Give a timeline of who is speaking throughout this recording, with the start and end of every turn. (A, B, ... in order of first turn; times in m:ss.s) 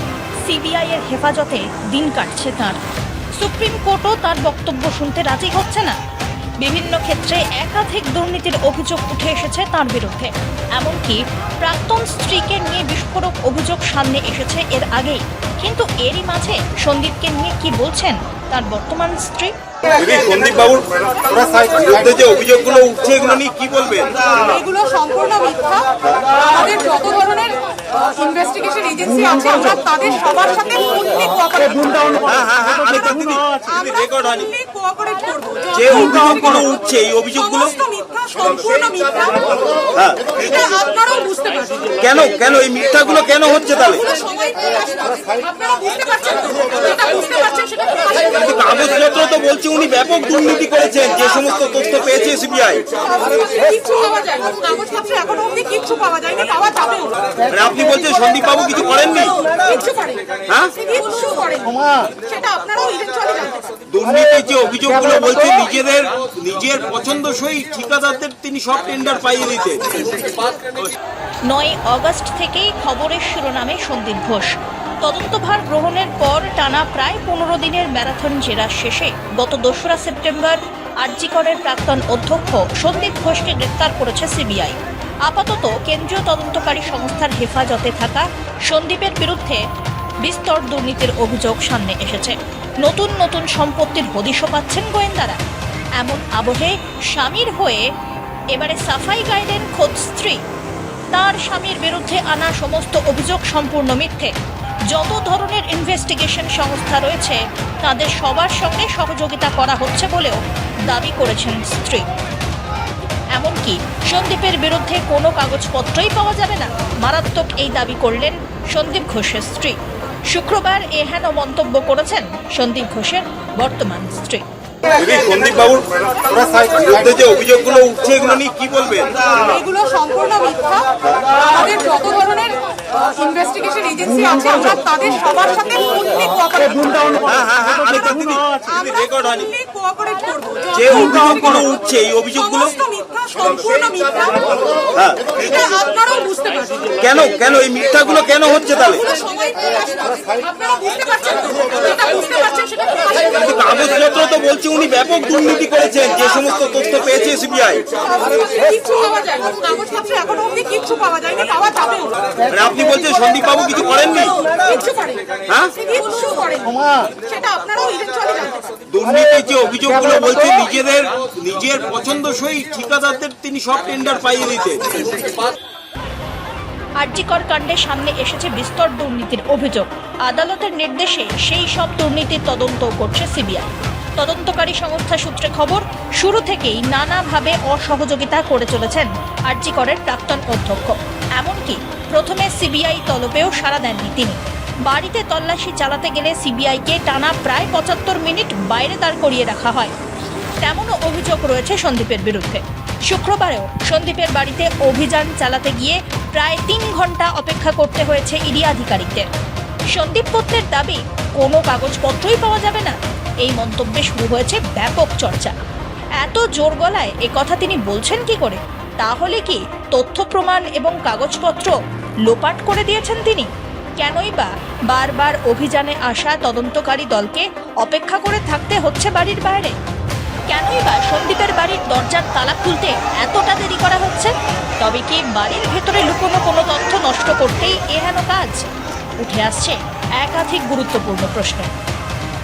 0:00.4-0:02.8 A
0:03.4-0:06.0 A
0:06.6-0:19.5 A
0:19.9-0:24.4 B
0:24.4-0:32.2 C
0:26.0-0:26.3 B
0:32.2-0:34.5 B
0:33.7-0:36.2 C
0:35.7-0:37.7 B
0:37.6-0:39.8 C
0:39.9-0:40.3 B
0:40.4-0:41.9 C
0:42.0-0:44.1 B
0:44.0-0:48.4 C
0:48.2-0:52.9 B
0:53.0-0:57.2 C
0:57.5-0:59.4 B
0:59.4-1:03.6 C
1:00.5-1:00.8 B
1:03.9-1:10.0 B
1:11.4-1:29.6 A
1:30.2-1:35.4 A
1:36.0-1:37.9 A
1:38.5-1:40.4 A
1:41.1-1:44.3 A
1:44.9-1:52.0 A
1:53.4-1:59.8 A
2:00.3-2:04.4 A
2:04.9-2:09.3 B
2:09.4-2:17.2 C
2:11.0-2:11.4 B
2:17.2-2:19.5 B
2:18.6-2:21.3 C
2:20.7-2:22.7 B
2:22.6-2:24.8 C
2:24.9-2:25.3 B
2:25.4-2:27.0 C
2:27.0-2:29.1 B
2:29.0-2:33.4 C
2:33.3-2:37.8 B
2:38.0-2:42.2 C
2:42.5-2:44.4 B
2:44.5-2:48.6 C
2:45.4-2:45.8 B
2:48.9-2:54.9 B
2:57.0-3:19.9 A
3:20.6-3:29.3 A
3:29.9-3:35.5 A
3:36.2-3:41.7 A
3:42.2-3:49.8 A
3:50.5-4:01.7 A